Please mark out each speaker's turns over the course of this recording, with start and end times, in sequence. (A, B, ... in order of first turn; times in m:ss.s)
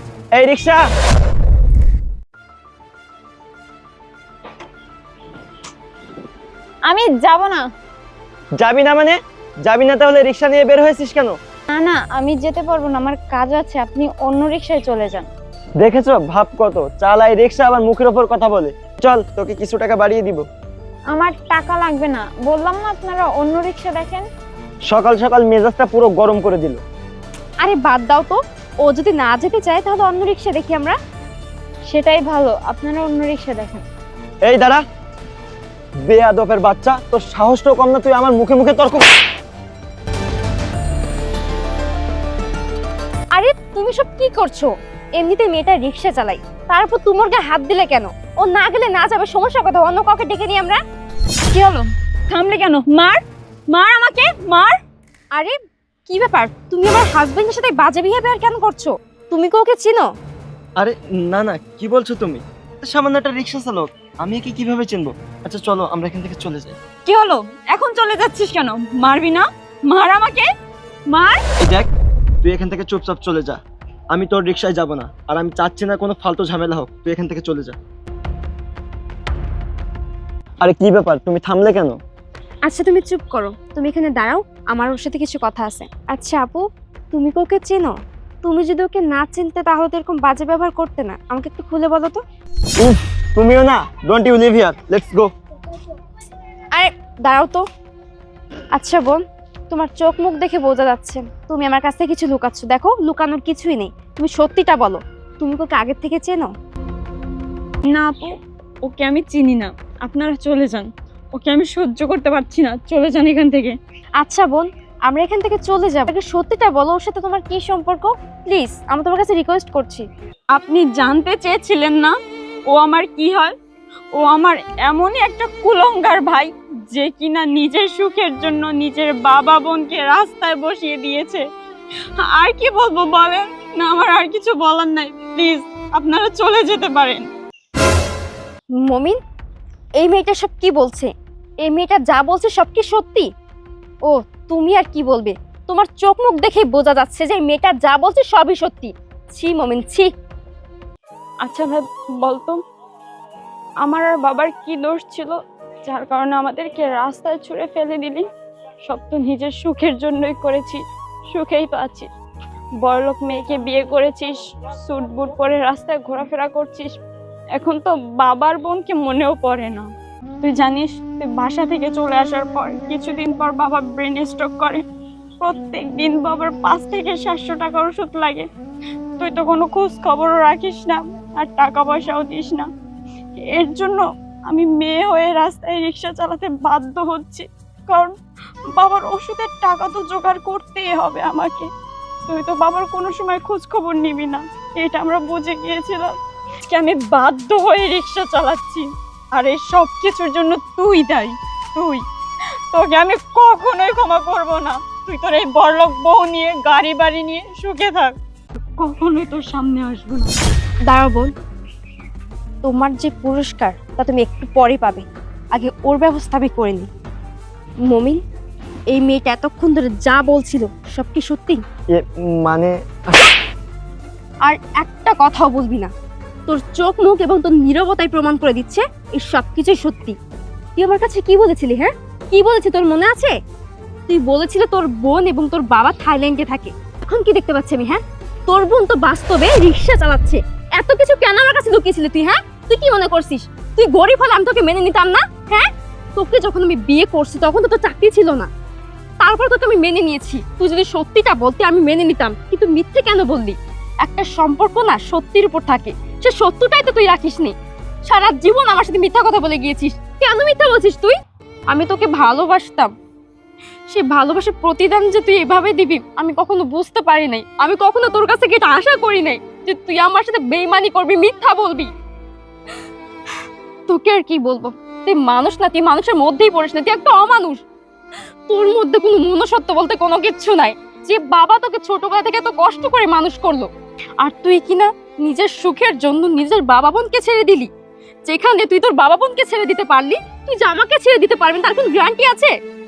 0:00.4-0:00.8 A
0:06.9-0:07.7 B
0:08.6-0:11.4 A
0:11.7-0:15.3 B
0:15.8-0:20.4 A
0:21.1-0:24.3 B
0:24.9-0:26.8 A
0:27.6-0:31.0 C
0:31.9-0:33.8 B
0:34.4-0:34.8 A
0:36.1-0:39.0 A
0:43.3-0:50.8 C
0:51.5-0:54.8 B
0:56.1-1:00.1 C
1:00.8-1:06.8 A
1:07.1-1:10.5 B
1:11.1-1:11.4 B
1:11.6-1:11.9 A
1:12.4-1:13.6 A
1:14.1-1:17.8 A
1:20.6-1:22.0 A
1:22.7-1:32.2 C
1:32.8-1:35.3 A
1:36.7-1:37.6 C
1:38.7-1:46.5 C
1:47.9-1:53.8 B
1:54.2-2:00.1 C
2:00.5-2:02.2 B
2:02.7-2:03.5 B
2:04.2-2:11.4 B
2:12.2-2:17.3 B
2:18.8-2:19.2 C
2:20.0-2:21.1 C
2:21.6-2:23.3 C
2:24.1-2:30.1 C
2:31.4-2:32.6 B
2:33.8-2:38.3 B
2:38.8-2:42.1 B
2:42.8-2:47.0 B
2:47.6-2:49.9 B
2:50.4-2:54.8 B
2:55.4-2:58.5 B
2:59.2-3:02.7 B
3:03.5-3:08.2 B
3:08.7-3:11.7 B
3:12.3-3:16.2 B
3:16.7-3:22.0 B
3:22.7-3:28.2 B
3:28.8-3:30.3 B
3:30.9-3:31.3 C
3:32.6-3:36.9 C
3:37.9-3:38.2 C
3:38.9-3:41.6 C
3:41.9-3:43.2 A
3:44.4-3:45.9 C
3:46.5-3:50.2 C
3:50.8-3:53.4 C
3:54.1-4:08.5 C
4:09.2-4:17.5 C
4:18.0-4:21.2 C
4:21.7-4:22.9 C
4:23.9-4:31.9 C
4:33.9-4:37.6 C
4:38.5-4:47.7 C
4:48.3-4:52.5 C